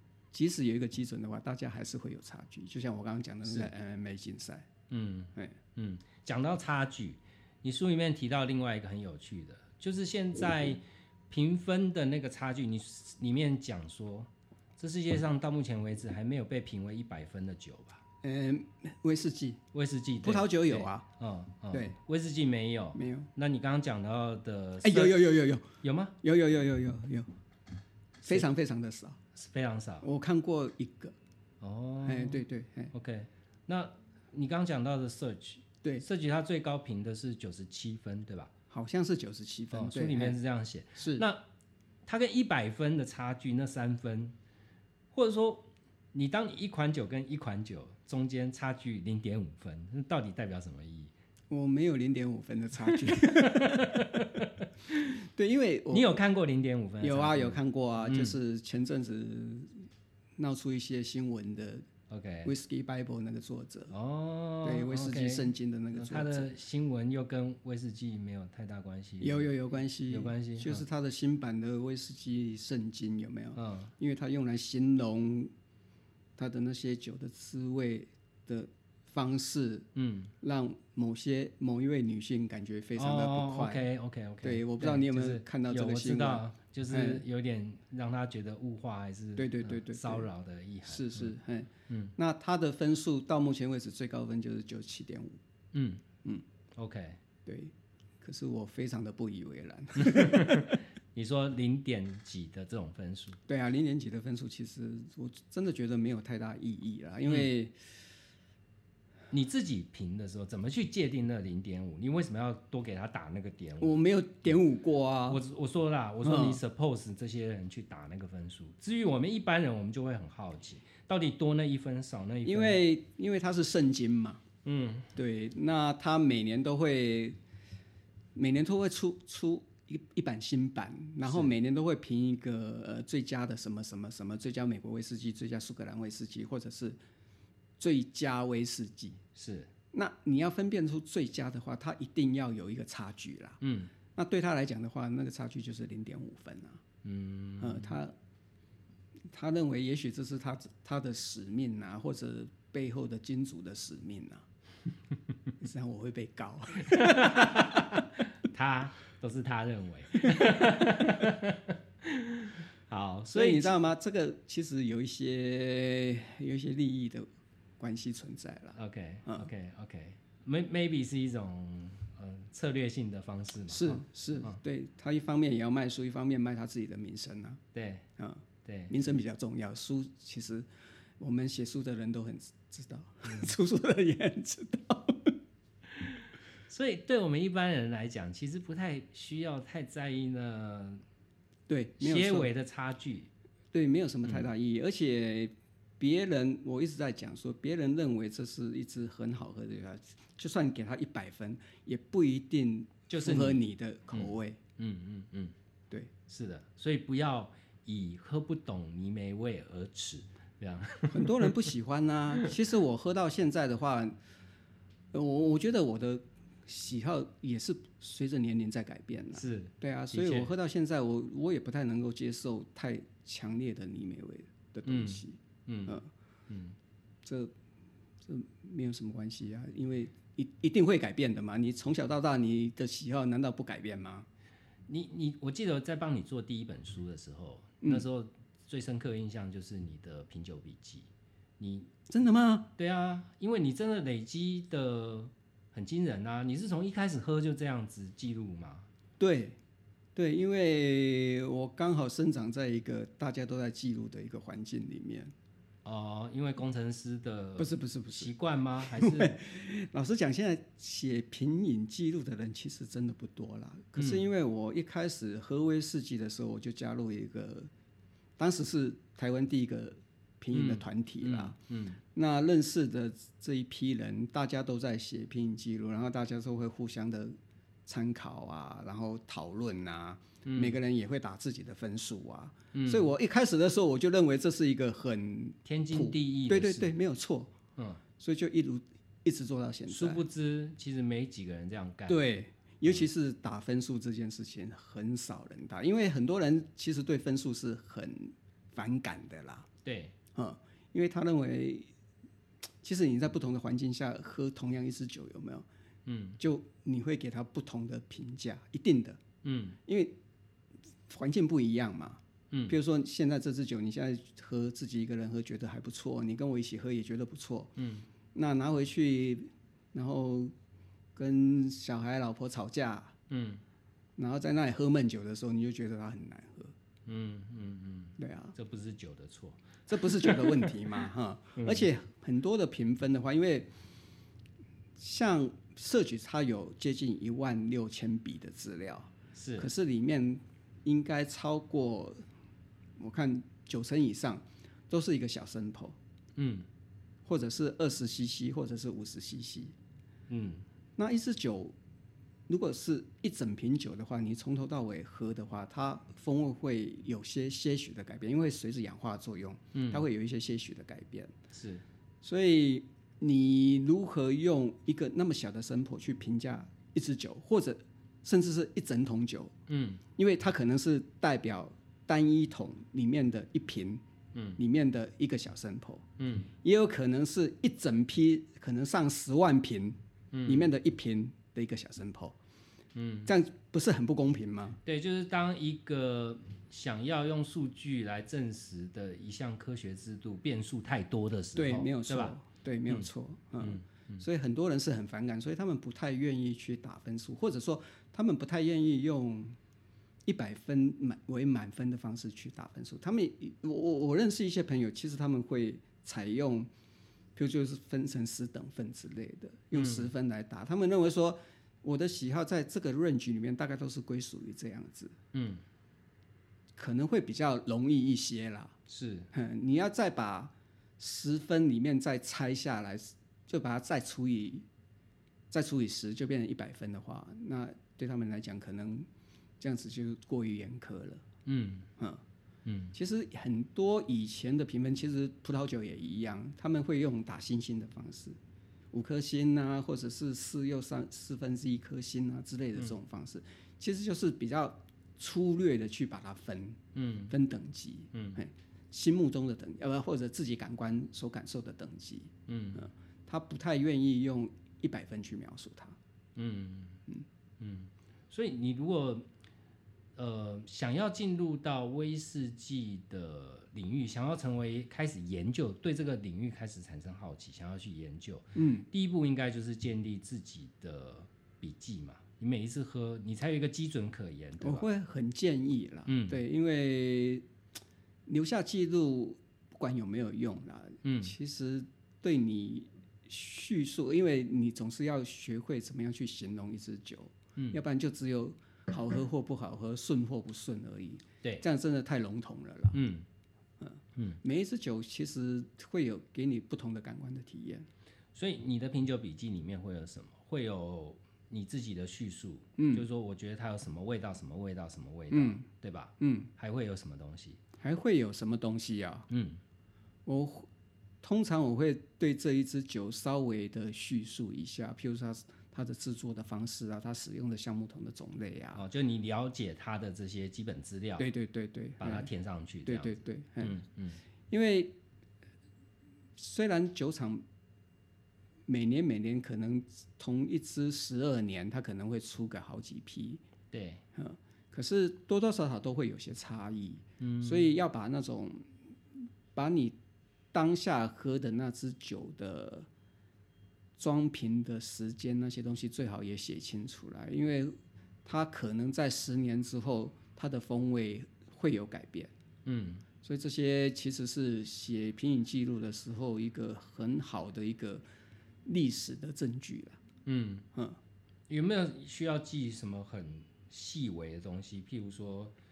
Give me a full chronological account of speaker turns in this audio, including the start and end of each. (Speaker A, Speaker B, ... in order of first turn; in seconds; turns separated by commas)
Speaker A: 0.3-4.7, Speaker B: 4.9-18.0, Speaker A: 18.2-19.6, Speaker B: 19.7-25.2, Speaker A: 20.2-21.1, Speaker A: 21.7-22.0, Speaker A: 23.0-23.3, Speaker A: 24.8-25.7, Speaker B: 25.8-26.2, Speaker A: 26.2-27.3, Speaker A: 28.2-29.2, Speaker B: 29.4-30.1, Speaker A: 30.0-31.1, Speaker B: 31.6-38.5, Speaker A: 32.0-32.9, Speaker A: 38.7-40.4, Speaker B: 39.7-41.4, Speaker A: 41.0-41.2, Speaker B: 42.1-44.4, Speaker B: 45.1-51.1, Speaker A: 51.5-54.2, Speaker B: 52.8-55.0, Speaker A: 55.1-56.1, Speaker B: 55.9-58.4, Speaker A: 57.0-59.8, Speaker A: 60.4-61.9, Speaker B: 62.1-62.5, Speaker A: 62.5-63.9, Speaker B: 63.9-69.5, Speaker A: 64.6-66.5, Speaker A: 69.2-75.5, Speaker B: 70.1-70.8, Speaker B: 73.5-73.9, Speaker A: 76.4-79.9, Speaker B: 80.0-80.3, Speaker A: 80.4-83.8, Speaker B: 83.0-91.3, Speaker A: 84.4-87.2, Speaker A: 89.4-90.3, Speaker A: 90.9-95.4, Speaker B: 91.9-92.1, Speaker B: 95.7-96.0, Speaker B: 96.8-97.2, Speaker A: 97.5-100.8, Speaker B: 100.0-103.4, Speaker A: 103.5-107.8, Speaker B: 109.3-114.0, Speaker A: 113.8-115.4, Speaker B: 115.3-122.8, Speaker A: 116.2-116.6, Speaker A: 122.4-124.4, Speaker B: 124.7-125.1, Speaker A: 125.2-127.4, Speaker A: 128.3-137.0, Speaker B: 131.2-131.5, Speaker A: 137.8-139.2, Speaker B: 139.3-139.7, Speaker A: 139.9-143.6, Speaker B: 143.6-143.9, Speaker A: 144.1-146.8, Speaker B: 147.0-148.0, Speaker A: 147.6-148.1, Speaker A: 149.3-154.4, Speaker A: 155.6-158.0, Speaker B: 156.8-163.7, Speaker A: 163.3-167.3, Speaker A: 167.8-169.5, Speaker B: 168.8-174.6, Speaker A: 173.7-177.6, Speaker B: 177.7-178.1, Speaker A: 178.2-180.7, Speaker B: 178.7-178.9, Speaker A: 181.2-185.3, Speaker B: 183.3-183.5, Speaker B: 185.9-191.0, Speaker A: 191.7-192.5, Speaker B: 192.0-193.3, Speaker A: 193.7-204.6, Speaker B: 203.1-205.6, Speaker B: 206.3-211.7, Speaker A: 211.1-214.2, Speaker A: 215.1-226.1, Speaker B: 219.3-220.5, Speaker B: 224.9-226.8, Speaker A: 227.2-227.5, Speaker A: 228.2-234.3, Speaker B: 234.9-241.1, Speaker B: 241.6-241.9, Speaker A: 242.1-242.7, Speaker B: 242.8-248.9, Speaker A: 249.2-249.6, Speaker A: 250.2-255.3, Speaker B: 255.8-259.4, Speaker A: 257.6-267.7, Speaker B: 264.0-264.3, Speaker A: 268.4-271.6, Speaker B: 270.5-272.0, Speaker A: 272.1-277.3, Speaker A: 277.9-287.5, Speaker B: 280.4-280.8, Speaker B: 282.7-283.1, Speaker B: 285.6-286.9, Speaker A: 288.2-290.2, Speaker B: 289.9-292.2, Speaker A: 292.1-299.7, Speaker B: 299.9-300.1, Speaker A: 300.4-301.9, Speaker A: 302.8-305.7, Speaker B: 306.1-306.4, Speaker A: 306.4-309.2, Speaker B: 309.4-309.8, Speaker A: 309.9-310.2, Speaker A: 311.1-317.7, Speaker B: 312.5-312.8, Speaker B: 317.8-318.1, Speaker A: 318.3-320.5, Speaker A: 321.1-323.1, Speaker B: 323.3-323.6, Speaker A: 324.2-326.7, Speaker B: 327.1-330.8, Speaker A: 328.2-328.6, Speaker A: 329.9-333.7, Speaker B: 331.6-331.9, Speaker A: 335.0-342.2, Speaker B: 339.4-339.7, Speaker A: 343.0-346.0, Speaker B: 346.4-346.7, Speaker A: 347.3-349.7, Speaker B: 350.3-350.6, Speaker A: 351.0-351.8, Speaker A: 352.5-361.3, Speaker B: 359.7-360.0, Speaker B: 361.5-361.8, Speaker A: 362.2-369.5, Speaker B: 369.7-370.0, Speaker A: 370.2-374.0, Speaker B: 374.4-374.6, Speaker A: 374.6-376.0, Speaker B: 376.2-376.5, Speaker A: 376.6-382.4, Speaker B: 380.3-380.7, Speaker B: 382.9-383.3, Speaker A: 383.3-384.8, Speaker B: 384.9-392.4, Speaker A: 391.6-399.6, Speaker B: 393.6-394.2, Speaker A: 400.3-406.7, Speaker A: 407.4-415.1, Speaker B: 409.7-410.1, Speaker B: 415.3-415.6, Speaker A: 416.8-418.8, Speaker B: 418.9-419.3, Speaker A: 419.3-424.7, Speaker A: 425.5-429.1, Speaker A: 429.6-431.2, Speaker B: 431.5-431.9, Speaker B: 432.7-432.9, Speaker A: 432.9-438.4, Speaker A: 438.9-456.0, Speaker B: 446.9-447.3, Speaker B: 448.1-448.4, Speaker B: 452.5-452.9, Speaker B: 456.4-457.0, Speaker B: 457.6-459.3, Speaker B: 460.2-474.9, Speaker A: 468.6-468.9, Speaker A: 474.6-477.4, Speaker B: 476.1-476.4, Speaker A: 478.3-493.0, Speaker B: 481.0-481.3, Speaker B: 492.9-493.3, Speaker A: 493.8-497.9, Speaker B: 498.4-507.6, Speaker A: 502.8-503.1, Speaker A: 505.3-505.6, Speaker A: 506.2-506.5, Speaker A: 507.8-509.3, Speaker B: 509.3-509.6, Speaker A: 510.3-510.7, Speaker A: 511.2-518.8, Speaker B: 518.8-521.3, Speaker A: 521.2-522.3, Speaker B: 522.0-524.2, Speaker A: 522.9-523.8, Speaker A: 524.5-525.0, Speaker A: 526.4-527.4, Speaker A: 528.7-533.4, Speaker B: 533.7-534.0, Speaker A: 534.1-538.7, Speaker B: 537.2-537.7, Speaker A: 539.5-540.0, Speaker A: 540.5-542.9, Speaker A: 544.0-552.3, Speaker B: 552.6-553.0, Speaker A: 553.2-558.0, Speaker A: 558.6-560.0, Speaker B: 560.3-560.7, Speaker B: 561.5-565.5